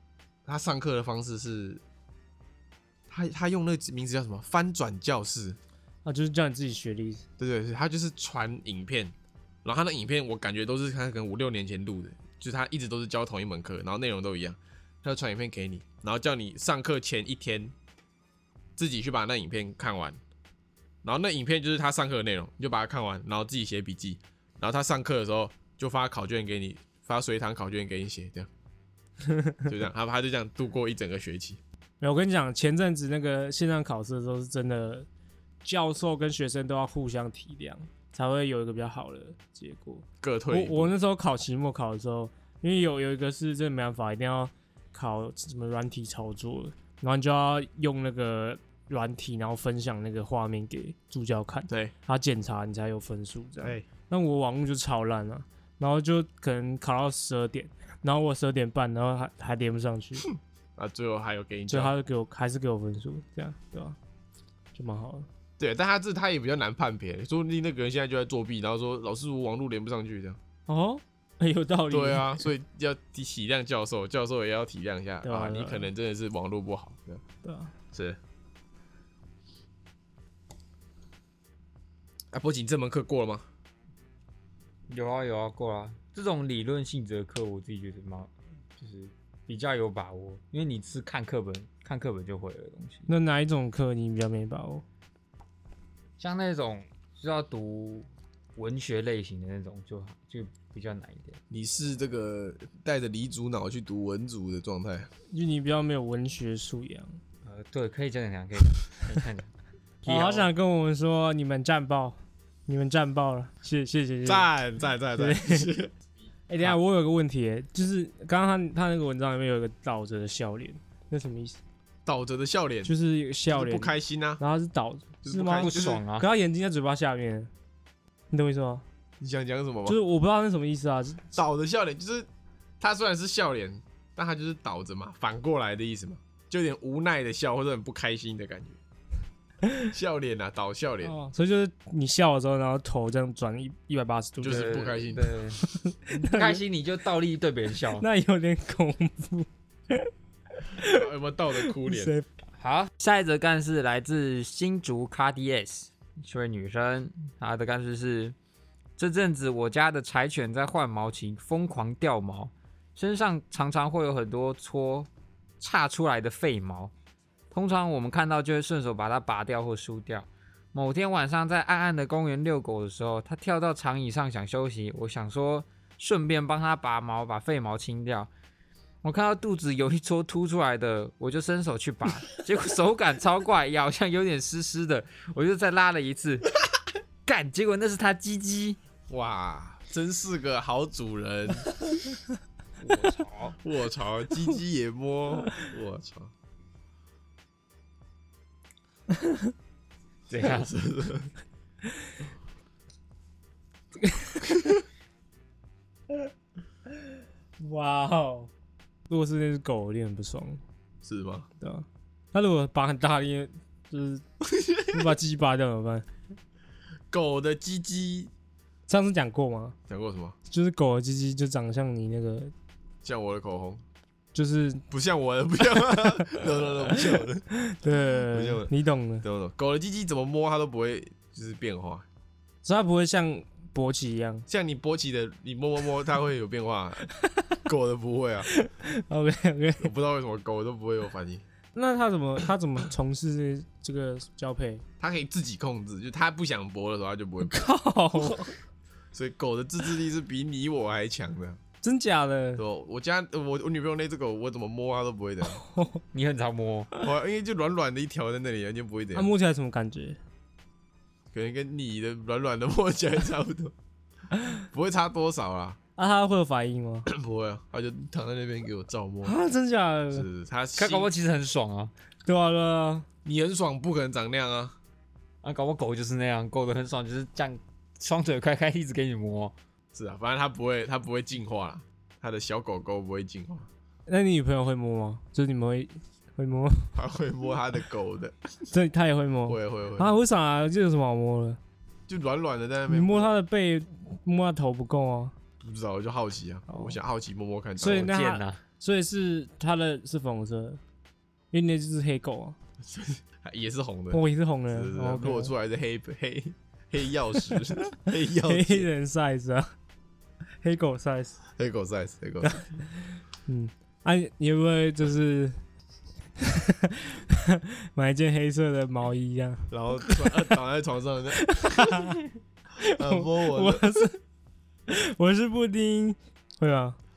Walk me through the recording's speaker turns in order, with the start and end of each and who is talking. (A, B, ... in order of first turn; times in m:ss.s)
0:00.4-0:01.8 A
0:03.1-0:05.6 A
0:06.0-0:07.2 B
0:07.4-0:17.7 A
0:18.8-0:20.2 A
0:21.0-0:28.5 A
0:29.2-0:29.7 B
0:29.6-0:31.6 A
0:32.0-0:35.1 B
0:35.6-1:00.3 B
0:40.2-0:40.9 A
1:00.8-1:01.9 A
1:01.7-1:04.0 B
1:04.7-1:05.3 B
1:05.6-1:10.4 A
1:10.7-1:12.4 B
1:11.9-1:17.2 A
1:15.2-1:15.9 B
1:17.4-1:17.7 B
1:17.9-1:18.2 A
1:22.3-1:23.4 A
1:24.9-1:33.1 C
1:33.1-1:34.8 B
1:36.2-1:41.4 C
1:41.5-1:45.1 A
1:45.3-1:47.2 B
1:47.4-1:49.5 C
1:50.0-1:50.5 C
1:50.0-1:54.5 B
1:54.2-1:55.9 A
1:55.1-1:55.7 B
1:56.5-2:01.6 B
2:02.0-2:02.9 A
2:02.8-2:07.5 B
2:03.5-2:04.4 A
2:05.2-2:06.0 A
2:05.6-2:06.2 C
2:08.3-2:08.8 B
2:09.2-2:10.0 A
2:09.8-2:11.4 B
2:11.3-2:12.3 A
2:12.8-2:18.8 A
2:19.9-2:21.1 A
2:21.0-2:24.8 B
2:24.4-2:25.3 A
2:24.4-2:28.0 C
2:25.6-2:26.6 B
2:28.0-2:30.1 B
2:30.6-2:31.1 B
2:30.8-2:32.1 A
2:31.6-2:32.2 B
2:32.6-2:38.3 C
2:39.0-2:45.1 C
2:45.6-2:46.9 C
2:47.5-2:58.3 C
2:59.0-3:06.5 C
3:07.2-3:08.8 C
3:09.1-3:11.7 A
3:12.8-3:13.6 C
3:13.6-3:16.3 A
3:20.3-3:20.7 C
3:20.4-3:21.3 A
3:24.0-3:24.6 B
3:27.6-3:28.5 B
3:29.1-3:30.6 B
3:31.0-3:31.5 A
3:31.6-3:34.2 B
3:34.4-3:35.1 A
3:34.9-3:36.1 B
3:37.1-3:38.3 A
3:38.9-3:39.8 B
3:39.9-3:40.3 A
3:40.5-3:42.5 B
3:43.0-3:43.8 A
3:44.3-3:44.8 B
3:44.9-3:47.4 A
3:45.7-3:49.2 B
3:48.3-3:48.7 A
3:49.2-3:52.0 A
3:52.6-3:54.4 B
3:54.5-3:57.0 A
3:57.2-3:57.5 B
3:57.6-3:58.5 A
3:58.5-3:59.9 B
3:59.8-4:01.4 A
4:01.7-4:04.8 B
4:05.0-4:07.6 A
4:07.4-4:08.5 B
4:09.1-4:11.6 A
4:11.8-4:12.6 B
4:12.6-4:15.6 A
4:15.6-4:16.0 B
4:16.1-4:16.9 C
4:17.0-4:19.3 A
4:19.1-4:20.2 B
4:21.3-4:23.7 A
4:24.6-4:25.8 A
4:26.0-4:27.1 B
4:27.1-4:29.3 A
4:29.2-4:30.3 B
4:30.1-4:31.1 A
4:30.8-4:31.9 C
4:32.2-4:33.0 B
4:33.2-4:34.8 A
4:35.4-4:39.5 C
4:39.9-4:43.7 A
4:44.1-4:47.0 B
4:46.9-4:48.4 A
4:48.7-4:51.6 B
4:49.5-4:50.1 A
4:52.1-4:53.3 A
4:52.9-4:55.3 B
4:55.6-4:58.1 A
4:56.7-4:57.0 B
4:57.8-5:00.8 B
4:57.9-4:58.6 C
5:01.5-5:02.6 B
5:02.8-5:08.9 A
5:04.1-5:05.5 B
5:07.5-5:09.7 B
5:10.6-5:11.4 B
5:11.6-5:12.6 A
5:12.4-5:12.8 B
5:13.4-5:15.6 B
5:16.4-5:20.5 B
5:19.7-5:22.2 A
5:21.3-5:22.2 B
5:22.8-5:24.2 B
5:22.8-5:24.0 A
5:24.9-5:27.0 B